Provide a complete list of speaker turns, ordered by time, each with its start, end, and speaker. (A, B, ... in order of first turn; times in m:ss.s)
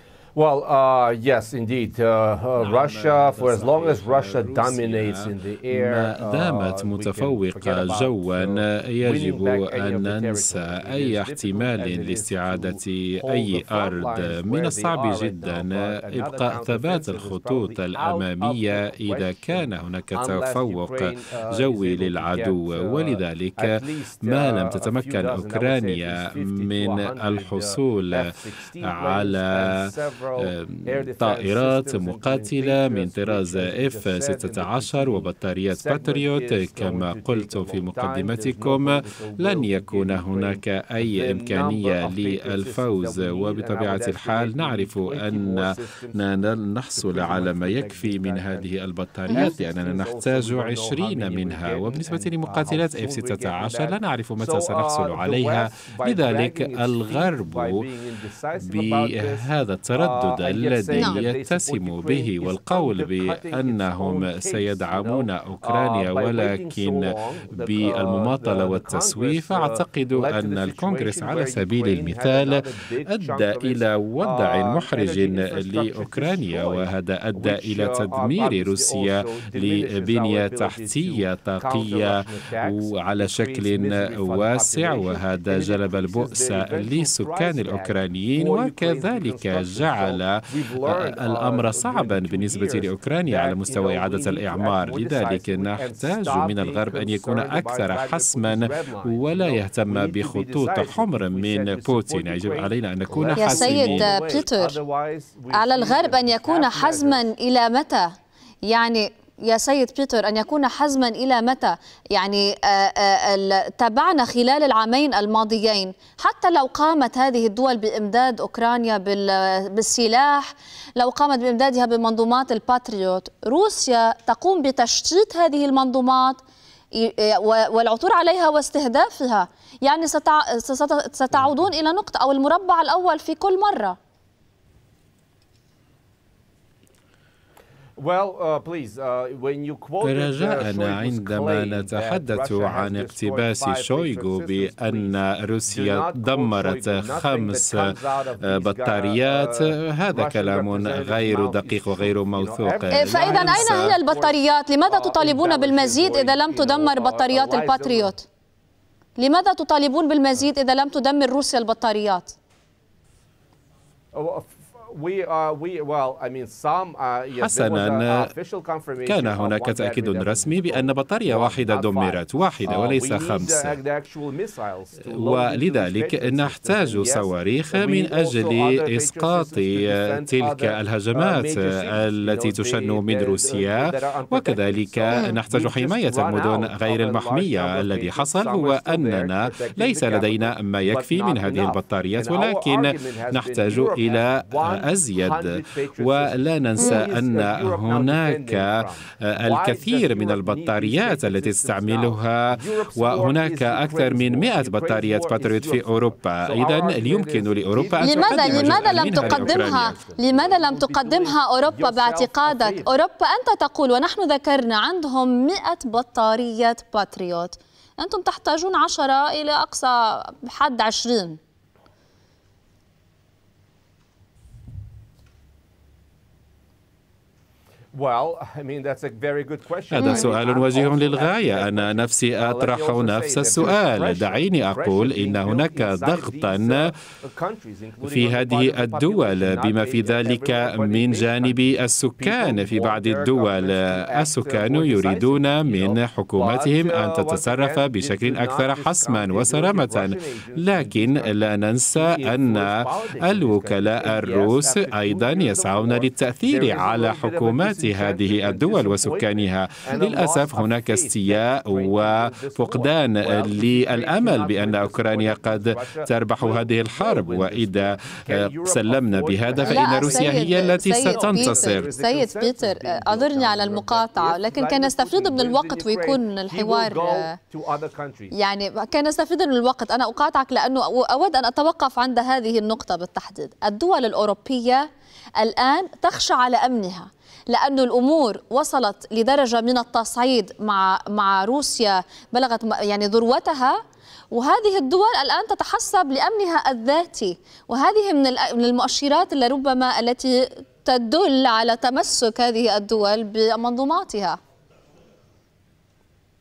0:00.3-0:48.7 A
0:02.6-0:28.3 B
0:28.8-0:29.8 B
0:30.4-0:57.8 B
0:49.3-1:47.2 A
0:58.6-1:44.2 B
1:00.9-1:01.2 C
1:43.4-1:44.8 C
1:45.5-1:48.1 C
1:48.6-2:06.4 C
2:06.9-2:14.0 C
2:18.0-2:38.1 A
2:20.0-2:27.8 B
2:28.4-2:34.0 B
2:32.9-2:38.2 C
2:39.2-2:42.4 C
2:44.1-3:32.9 A
2:47.4-2:48.3 B
2:49.0-2:53.8 B
2:55.0-3:29.9 B
3:16.8-3:17.0 C
3:28.0-3:41.4 C
3:47.9-4:11.4 A
3:49.9-3:56.9 B
3:49.9-3:50.4 C
3:58.0-4:31.9 B
4:11.9-4:38.3 A
4:29.6-4:37.4 C
4:38.3-5:04.4 C